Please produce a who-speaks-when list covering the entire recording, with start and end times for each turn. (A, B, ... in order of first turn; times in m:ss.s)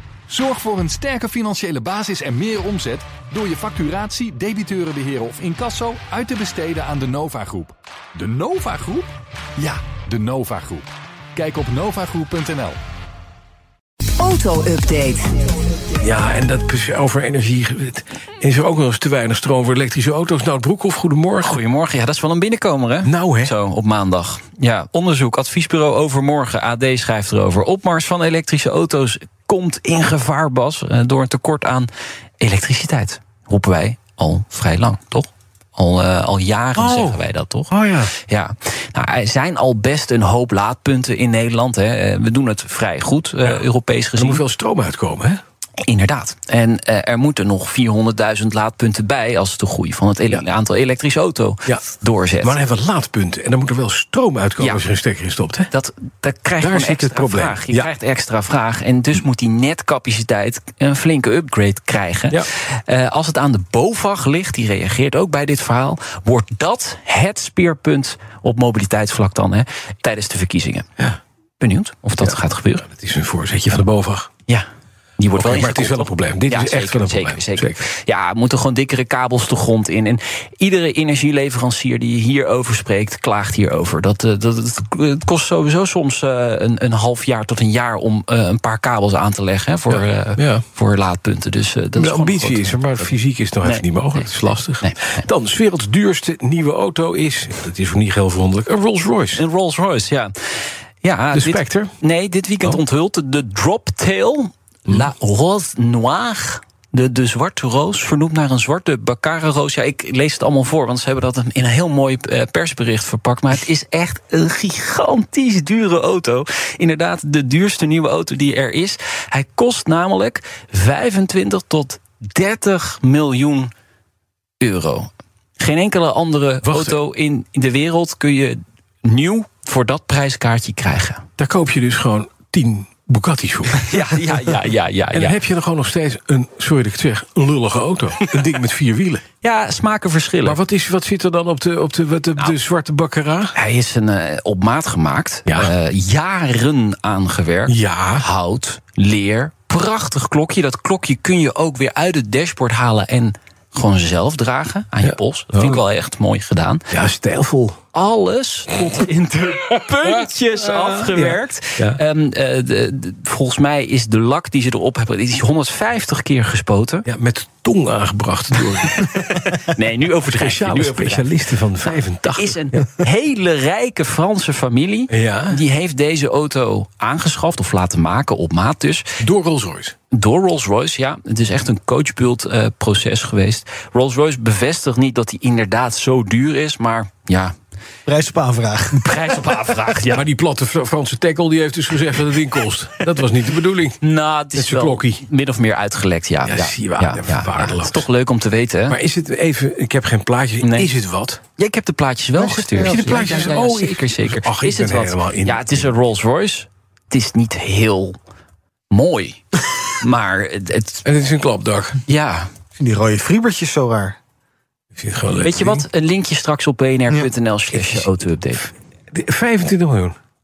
0:00.3-0:10.8 A
0:07.1-0:07.7 B
0:10.3-0:10.8 B
0:11.4-0:12.8 A
0:11.5-0:12.8 B
0:14.2-0:15.2 B
0:16.0-0:21.6 C
0:21.4-0:44.4 D
0:23.0-0:23.6 C
0:36.8-0:38.1 C
0:44.2-0:45.4 C
0:45.8-0:52.6 D
0:52.4-0:55.7 C
0:55.7-1:10.9 D
0:56.6-0:57.9 C
1:11.6-1:12.9 D
1:12.2-1:14.3 C
1:15.2-1:35.3 D
1:15.3-1:17.9 C
1:29.9-1:30.6 C
1:32.0-1:39.4 C
1:39.4-2:03.7 D
1:41.3-1:41.9 C
2:04.6-2:11.3 D
2:06.6-2:07.0 C
2:11.4-2:13.9 C
2:13.8-2:15.4 D
2:15.1-2:19.2 C
2:19.4-2:20.6 D
2:20.4-2:23.6 C
2:23.6-2:36.8 D
2:25.5-2:25.7 C
2:27.7-2:28.3 C
2:35.0-2:35.8 C
2:36.9-2:37.8 C
2:37.9-2:47.1 D
2:40.2-2:42.0 C
2:47.1-2:49.5 C
2:48.8-2:59.2 D
2:50.3-2:53.0 C
2:55.1-2:55.6 C
2:59.2-3:00.0 C
3:00.1-3:07.6 D
3:08.1-3:09.1 E
3:08.9-3:10.2 D
3:09.9-3:14.0 C
3:14.0-3:19.0 D
3:14.6-3:15.2 C
3:16.4-3:18.0 C
3:18.9-3:21.4 C
3:20.6-3:20.9 D
3:21.6-3:28.2 D
3:22.4-3:23.5 E
3:22.8-3:25.9 C
3:28.9-3:31.0 D
3:31.0-3:32.0 C
3:32.1-3:32.5 D
3:32.8-3:34.2 E
3:34.9-3:35.9 C
3:35.4-3:38.7 D
3:37.7-3:38.1 C
3:39.1-3:40.2 C